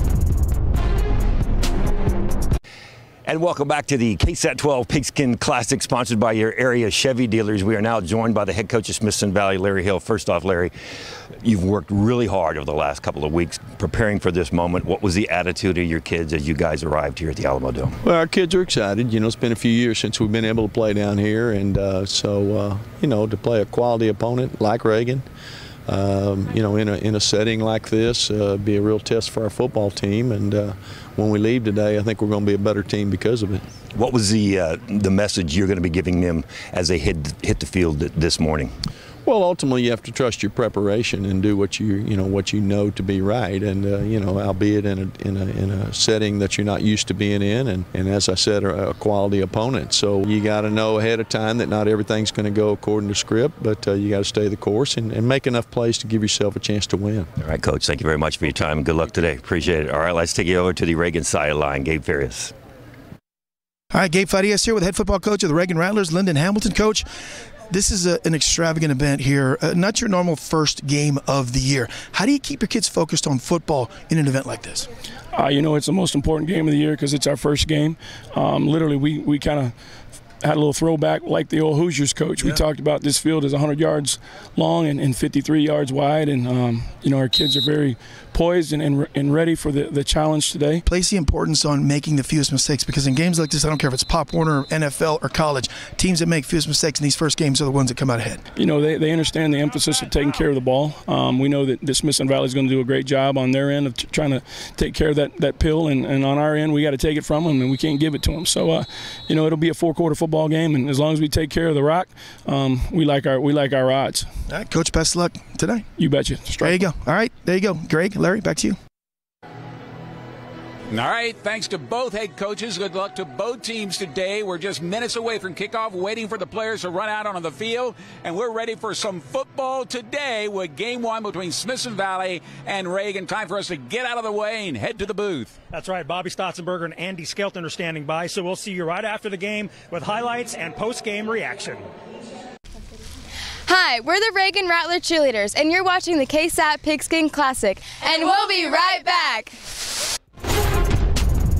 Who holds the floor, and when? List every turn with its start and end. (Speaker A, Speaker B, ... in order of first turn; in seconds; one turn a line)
Speaker A: 3.2-10.7
Speaker A: 11.4-17.9
Speaker B: 18.0-25.3
Speaker B: 25.9-33.6
Speaker A: 34.0-38.7
Speaker B: 39.2-57.3
Speaker A: 57.4-62.5
Speaker C: 63.9-67.1
Speaker C: 67.7-74.9
Speaker D: 75.4-79.7
Speaker D: 80.4-90.8
Speaker C: 90.8-98.4
Speaker D: 98.6-114.3
Speaker E: 100.0-100.3
Speaker C: 114.5-115.9
Speaker D: 116.0-116.8
Speaker C: 116.5-118.8
Speaker F: 120.9-135.6
Speaker E: 135.7-141.9
Speaker G: 143.7-149.6